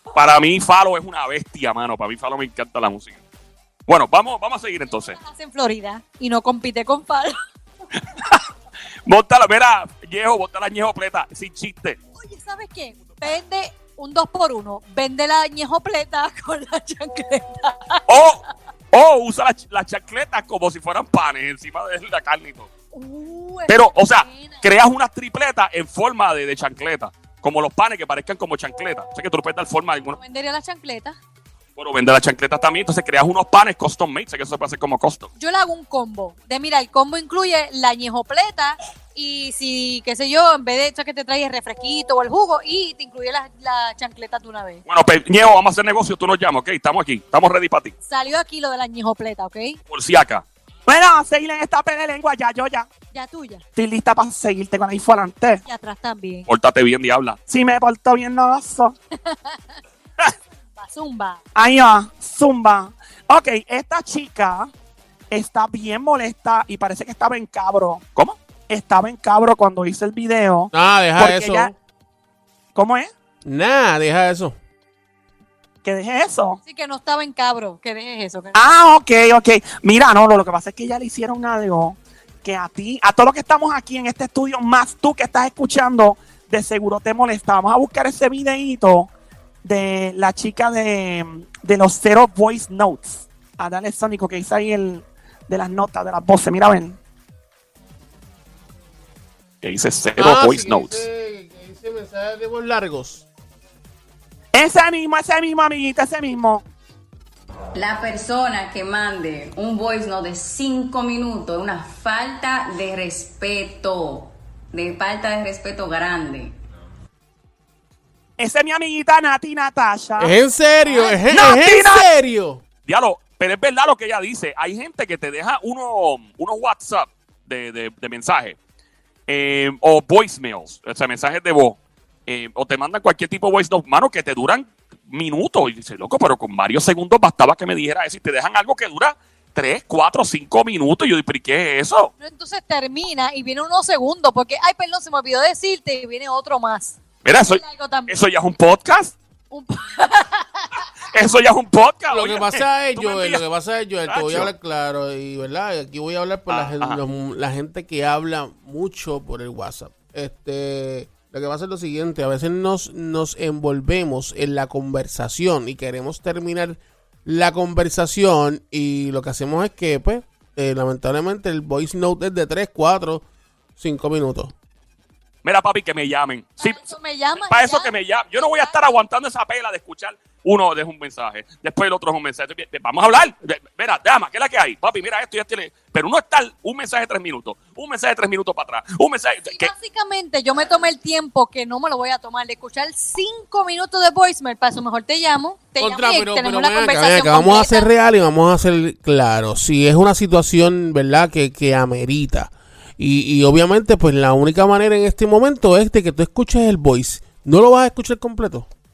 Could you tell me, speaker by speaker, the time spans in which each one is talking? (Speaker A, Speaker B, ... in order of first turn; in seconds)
Speaker A: 0.1-3.2, 3.9-5.2, 8.2-8.4, 9.1-12.0, 18.1-18.4, 18.9-22.7, 23.7-30.2, 31.8-35.3, 44.9-47.9, 49.9-50.5, 56.5-57.4, 99.6-101.0, 122.9-128.6, 129.3-142.1, 147.2-149.2, 151.1-153.4, 154.1-154.5, 156.5-157.0, 175.4-189.7
Speaker B: 4.8-7.4, 12.2-18.1, 22.9-24.6, 30.2-31.2, 35.4-44.8, 48.1-49.8, 53.1-53.6, 55.7-56.5, 59.2-59.8, 60.8-61.4, 76.6-78.6, 142.2-148.2, 149.5-150.8, 176.6-178.8, 189.5-197.9
Speaker C: 50.9-52.9, 53.8-55.6, 57.5-59.0, 61.6-64.7, 65.3-68.0, 68.7-71.7, 72.8-73.1, 75.8-76.6, 78.5-89.1, 89.6-97.0, 104.5-106.6, 118.4-120.4, 121.3-122.1
Speaker D: 70.7-71.8, 73.4-74.6, 100.2-103.2, 120.2-122.6, 152.1-173.2, 173.8-174.5, 195.8-208.7
Speaker E: 107.8-116.5